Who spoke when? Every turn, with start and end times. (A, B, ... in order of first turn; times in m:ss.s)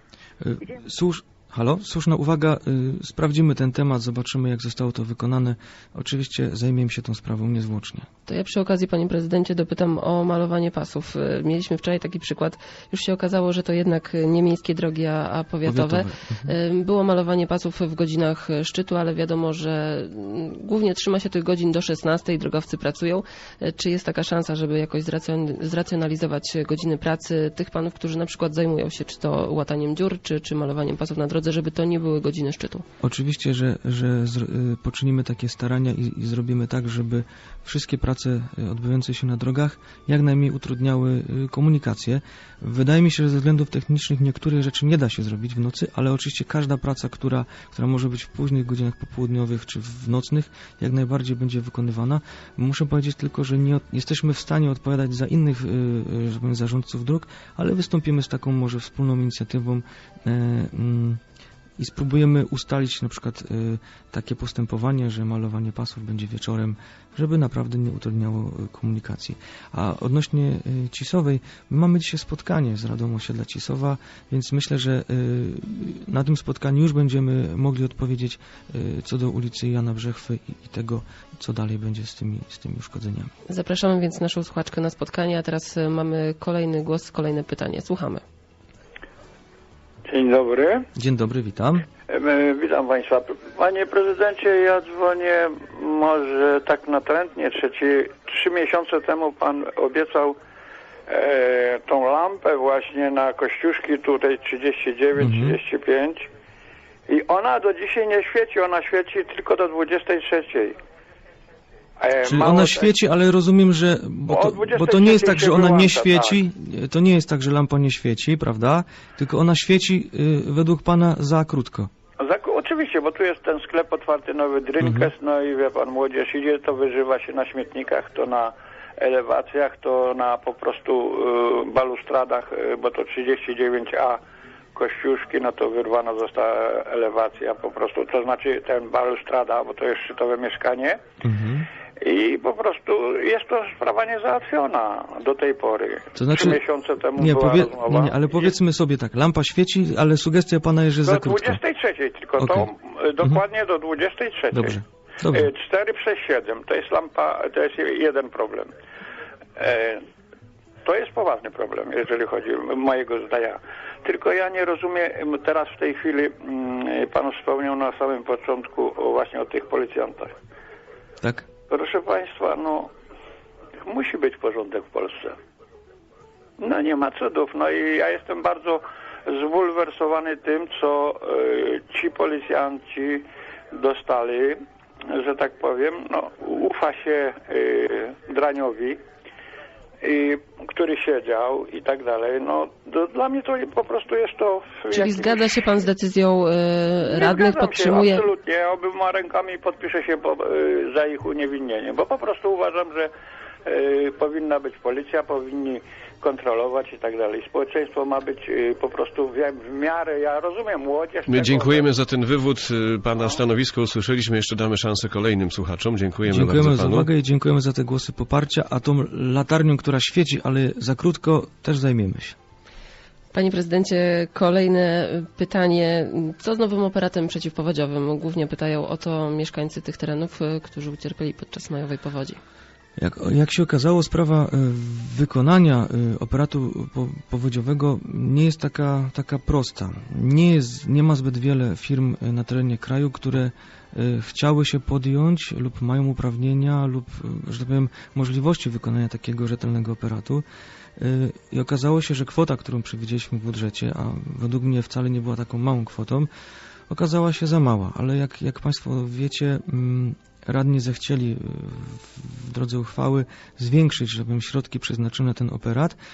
0:00.4-0:08.1 A
0:08.3-0:32.8 B
0:15.6-0:16.5 A
0:33.0-1:01.2 A
1:01.8-1:23.3 A
1:23.5-1:28.2 B
1:30.0-1:30.9 C
1:30.9-1:31.8 A
1:32.1-1:40.4 C
1:41.1-1:46.3 C
1:45.2-1:45.6 A
1:47.1-1:50.8 C
1:52.0-1:52.9 C
1:52.2-2:01.9 A
1:54.3-1:56.4 C
2:02.2-2:14.2 C
2:04.8-2:05.1 A
2:14.7-2:21.0 C
2:21.2-2:21.7 A
2:22.0-2:28.5 C
2:26.1-2:26.6 A
2:27.2-2:31.6 A
2:31.0-2:38.7 C
2:32.4-2:32.7 A
2:34.5-2:35.5 A
2:39.6-2:40.0 C
2:40.8-2:50.3 C
2:51.2-2:51.5 A
2:51.7-2:52.9 C
2:53.8-2:55.4 C
2:56.6-3:09.0 C
3:10.0-3:15.4 C
3:14.9-3:18.2 B
3:17.0-3:23.1 C
3:23.6-3:31.9 C
3:31.3-3:37.1 D
3:36.3-3:42.4 A
3:43.3-3:52.4 B
3:53.0-4:10.4 A
4:11.0-4:16.3 A
4:16.9-4:26.0 A